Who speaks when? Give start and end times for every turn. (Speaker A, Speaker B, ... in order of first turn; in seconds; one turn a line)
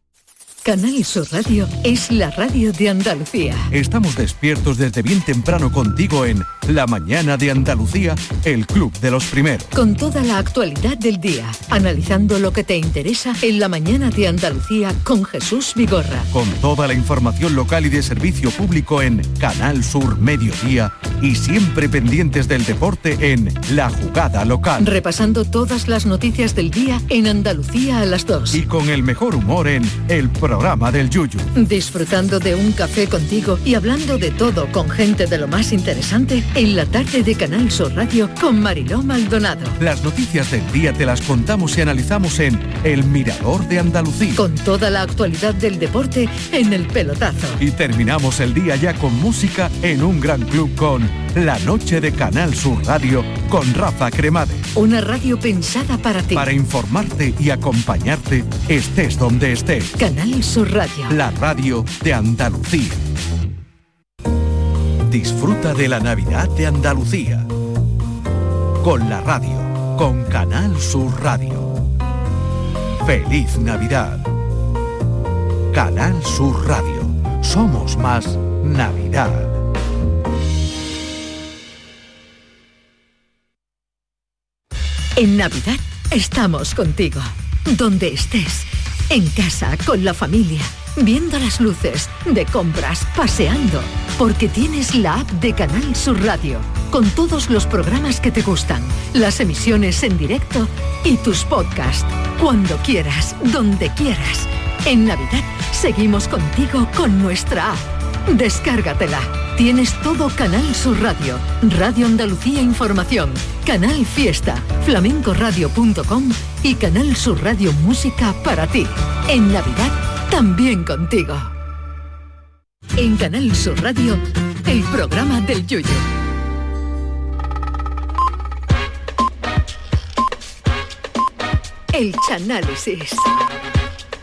Speaker A: 0.6-3.7
Speaker B: 3.7-9.7
Speaker A: 9.7-16.3
Speaker B: 16.3-24.9
Speaker A: 24.8-28.6
Speaker B: 28.5-31.5
Speaker A: 31.6-39.8
Speaker B: 39.8-44.4
Speaker A: 44.4-47.6
Speaker B: 47.6-54.7
Speaker A: 54.8-56.5
Speaker B: 56.3-60.0
Speaker A: 60.0-61.2
Speaker B: 61.1-63.1
Speaker B: 65.1-67.5
Speaker B: 68.8-71.7
Speaker B: 73.0-74.2
Speaker B: 75.7-79.6
Speaker A: 85.2-121.5
Speaker A: 123.0-126.0
Speaker A: 131.9-133.3